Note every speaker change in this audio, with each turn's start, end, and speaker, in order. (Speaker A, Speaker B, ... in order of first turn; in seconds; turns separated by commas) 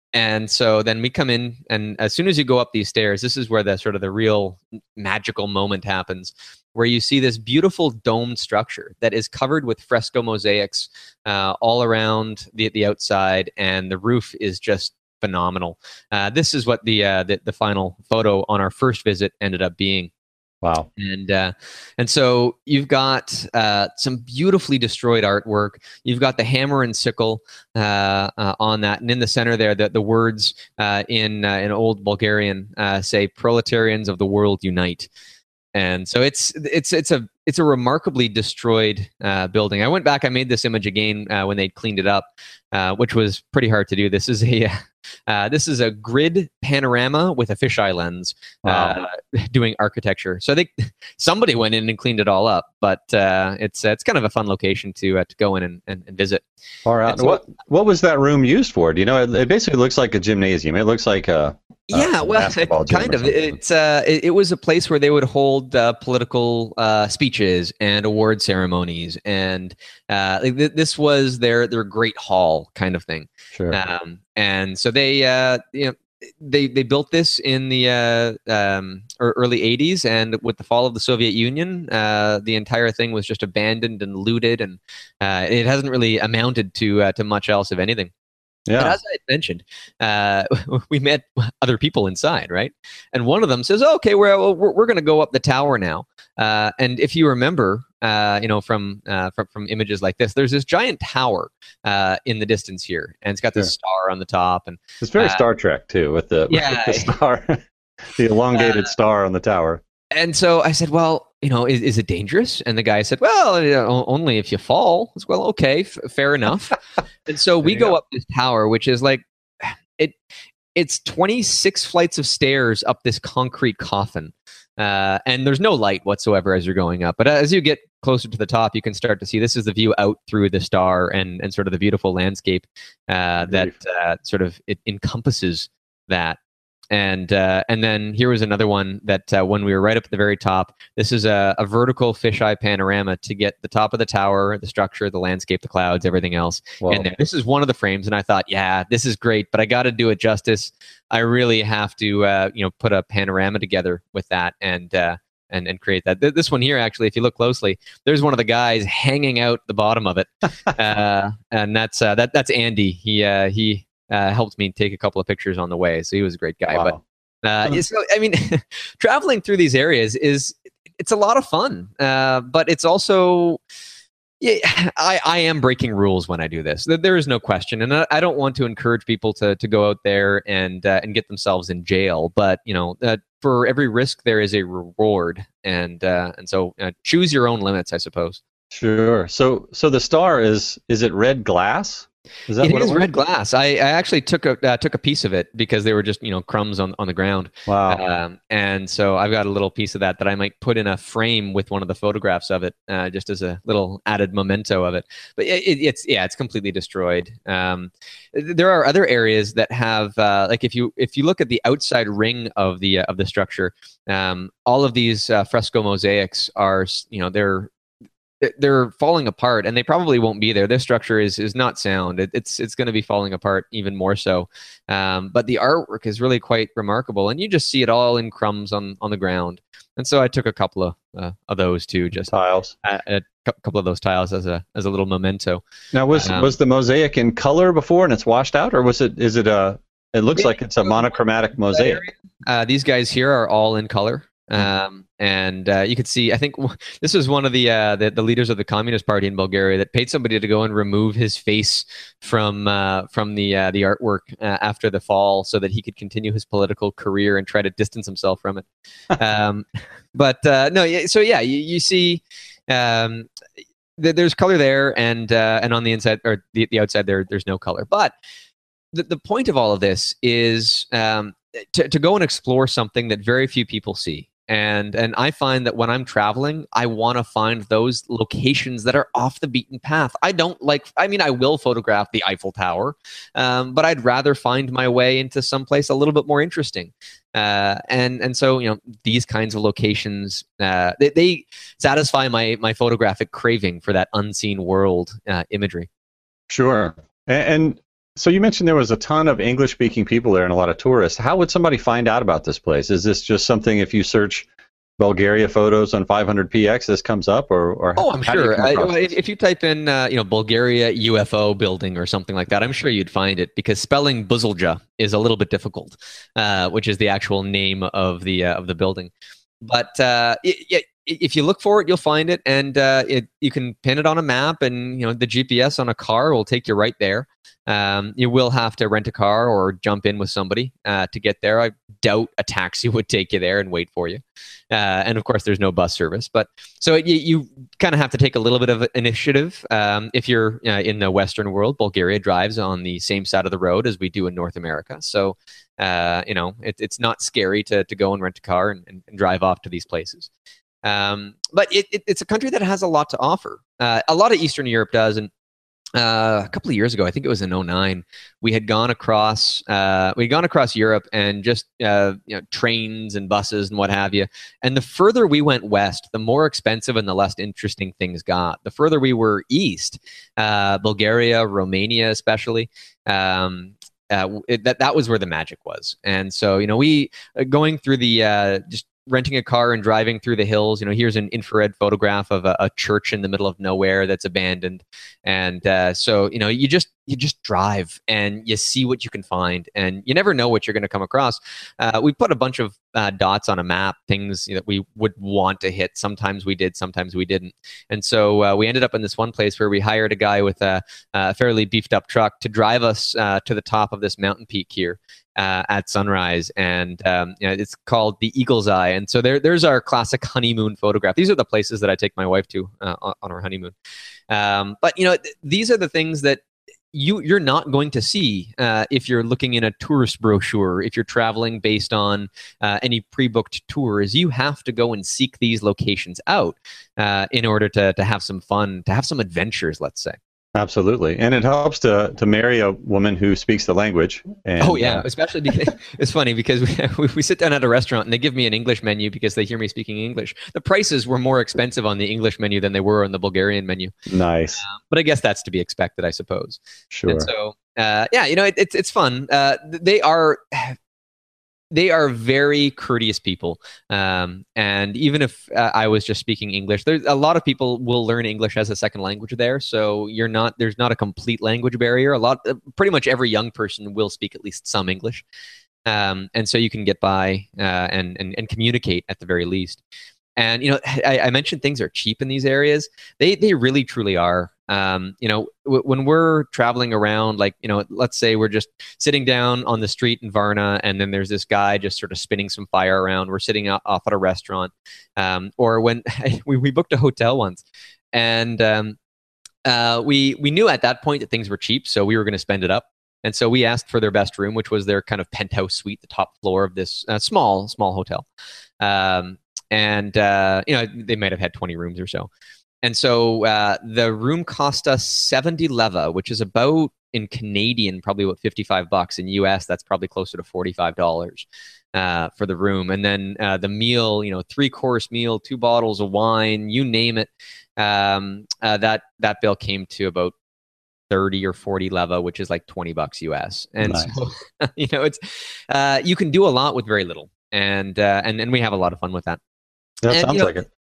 Speaker A: 0.1-20.1, Speaker B: 20.6-20.9, Speaker A: 21.0-35.1, Speaker A: 35.7-56.4, Speaker B: 48.6-49.0, Speaker B: 56.8-63.6, Speaker A: 57.0-57.4, Speaker A: 61.9-88.1, Speaker B: 88.7-89.0, Speaker A: 88.8-105.4, Speaker B: 105.0-107.6, Speaker A: 106.5-107.1, Speaker B: 108.1-109.8, Speaker A: 108.5-108.8, Speaker A: 110.1-120.2, Speaker B: 117.6-118.0, Speaker A: 120.7-136.4, Speaker B: 133.4-133.7, Speaker A: 136.9-173.6, Speaker B: 146.8-147.1, Speaker B: 166.7-167.0, Speaker A: 174.4-188.4, Speaker B: 188.7-193.1, Speaker A: 192.6-217.7, Speaker B: 197.7-198.0, Speaker A: 218.4-235.6, Speaker B: 232.3-232.7, Speaker B: 235.9-242.0, Speaker A: 236.1-236.6, Speaker A: 240.3-241.1, Speaker A: 241.7-263.3, Speaker A: 264.0-268.1, Speaker A: 268.9-295.9, Speaker B: 296.5-304.5, Speaker B: 305.0-309.1, Speaker A: 308.0-319.1, Speaker A: 319.6-350.3, Speaker A: 350.8-355.3, Speaker A: 355.9-413.7, Speaker A: 414.3-430.2, Speaker B: 430.5-435.1, Speaker A: 434.6-443.9, Speaker B: 444.1-444.6, Speaker A: 444.6-450.8, Speaker B: 446.9-447.3, Speaker A: 451.7-465.2, Speaker A: 465.9-469.8, Speaker A: 470.4-489.0, Speaker A: 489.6-498.2, Speaker A: 498.8-502.3, Speaker A: 502.8-520.3, Speaker A: 521.1-529.4, Speaker B: 523.8-524.1, Speaker B: 530.0-530.7, Speaker A: 530.1-530.5